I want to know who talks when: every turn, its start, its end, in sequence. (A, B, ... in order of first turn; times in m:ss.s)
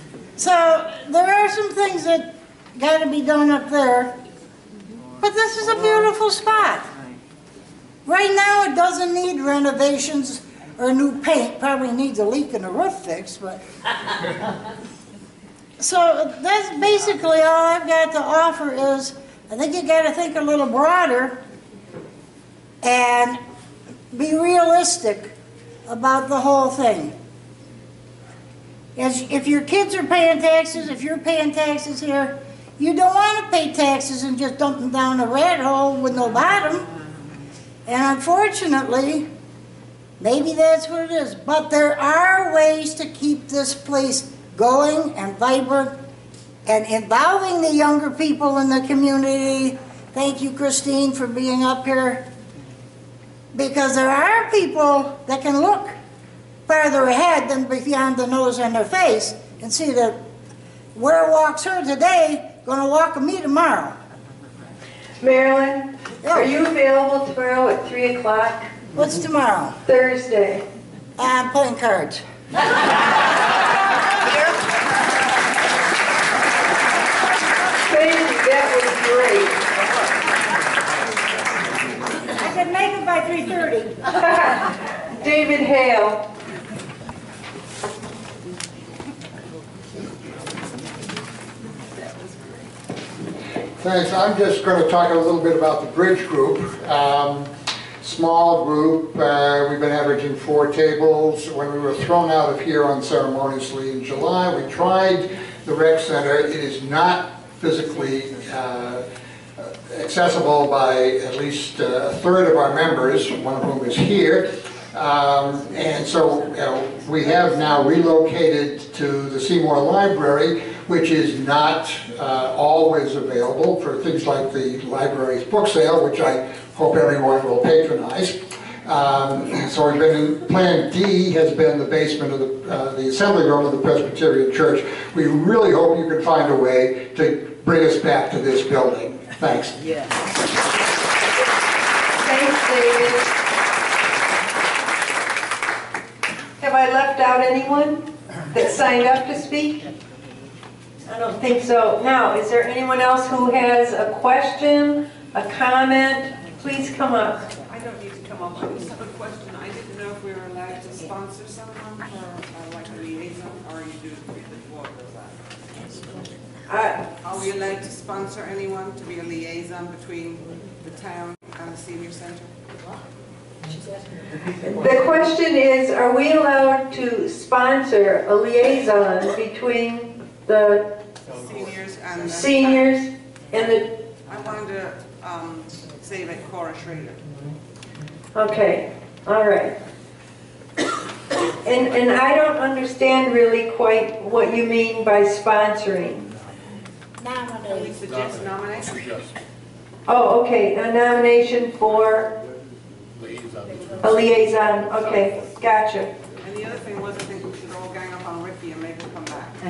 0:00.4-0:04.1 A
0:05.2-0:06.9 A
0:08.0-0:13.6 A
0:15.8-0:21.4 A
0:22.8-0:23.4 A
0:24.1-0:25.3 A
0:25.9-0:27.1 A
0:29.0-0:36.9 A
0:37.8-0:39.3 A
0:40.2-0:46.0 A
0:46.6-0:52.2 A
0:53.5-0:56.0 A
0:56.7-1:00.2 A
1:00.9-1:04.0 A
1:05.2-1:08.7 B
1:06.2-1:06.5 A
1:08.9-1:09.8 A
1:09.8-1:10.6 B
1:11.2-1:12.2 A
1:17.8-1:19.6 B
1:24.2-1:26.3 B
1:32.2-1:32.5 C
1:33.8-1:49.0 D
1:49.6-2:19.8 D
2:22.2-2:23.3 B
2:26.6-2:29.8 B
2:31.1-2:37.4 B
2:37.6-2:45.4 C
2:46.7-2:47.0 B
2:47.2-2:52.5 C
2:54.6-3:00.9 B
3:01.3-3:02.9 C
3:02.2-3:04.0 B
3:04.2-3:07.2 C
3:08.3-3:09.8 B
3:11.6-3:16.3 B
3:17.5-3:19.1 C
3:20.1-3:22.3 B
3:24.0-3:26.1 B
3:26.4-3:29.6 C